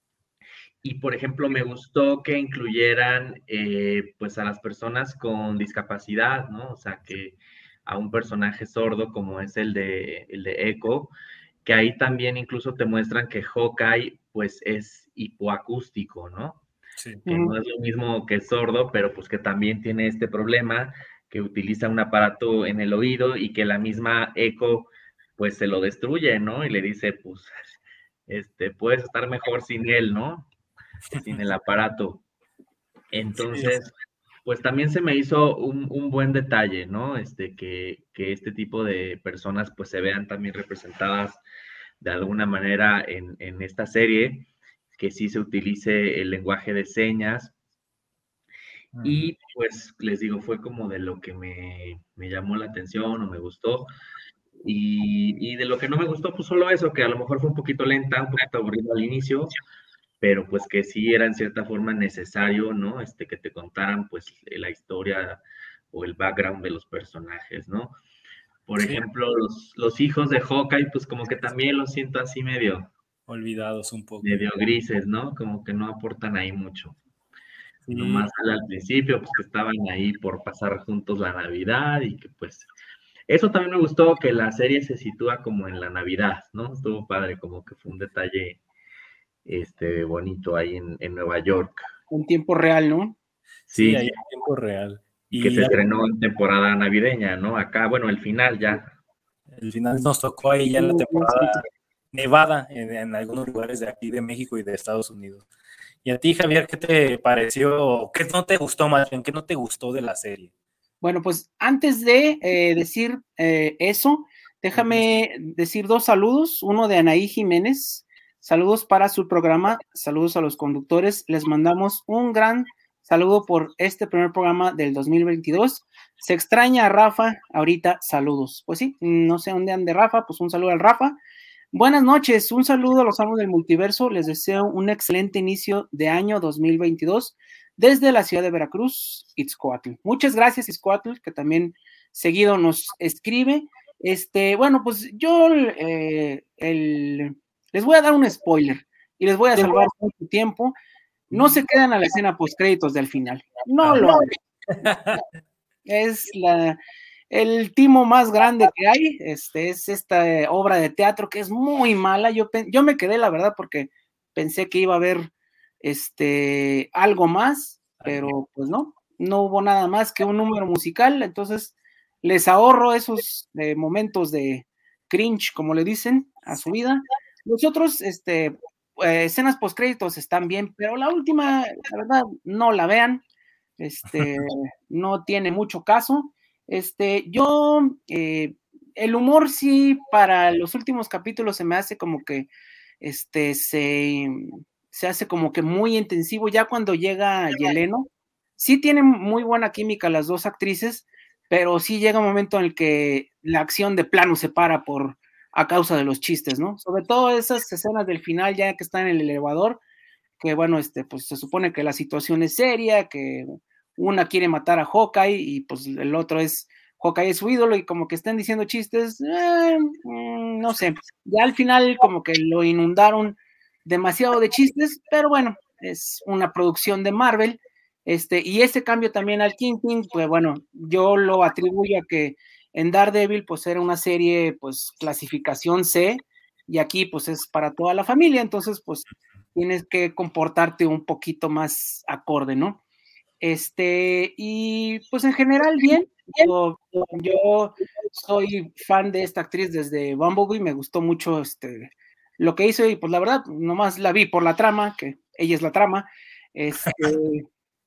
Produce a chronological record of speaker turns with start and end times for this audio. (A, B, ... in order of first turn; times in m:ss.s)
0:00.8-0:11.1 A
0:11.6-0:16.6 A
0:17.0-0:17.2 B
0:17.3-0:17.5 C
0:17.3-0:27.5 A
0:28.3-0:30.5 A
0:31.1-0:32.2 A
0:33.1-0:33.9 A
0:33.5-0:33.8 B
0:34.4-0:41.4 A
0:42.0-0:47.5 A
0:48.9-0:49.3 B
0:49.0-0:53.9 A
0:54.6-0:59.6 A
1:00.2-1:05.4 A
1:05.9-1:07.9 A
1:08.7-1:12.9 A
1:08.8-1:09.0 B
1:13.3-1:14.4 B
1:14.2-1:17.0 A
1:17.9-1:18.3 B
1:17.9-1:22.7 A
1:23.3-1:28.6 A
1:29.5-1:31.9 A
1:32.1-1:33.2 C
1:33.7-1:34.1 A
1:33.8-1:35.8 B
1:35.3-1:38.9 A
1:39.5-1:45.4 B
1:40.8-1:41.6 C
1:46.0-1:50.5 B
1:51.0-2:11.2 C
1:54.8-1:55.0 B
2:11.7-2:30.8 C
2:31.3-2:34.3 C
2:33.8-2:34.2 B
2:34.7-2:35.2 B
2:35.9-2:36.8 C
2:37.3-2:45.3 C
2:45.8-3:03.2 C
2:48.0-2:48.3 B
3:03.8-3:12.5 C
3:13.0-3:29.8 C
3:30.4-4:02.8 C
4:03.4-4:17.5 C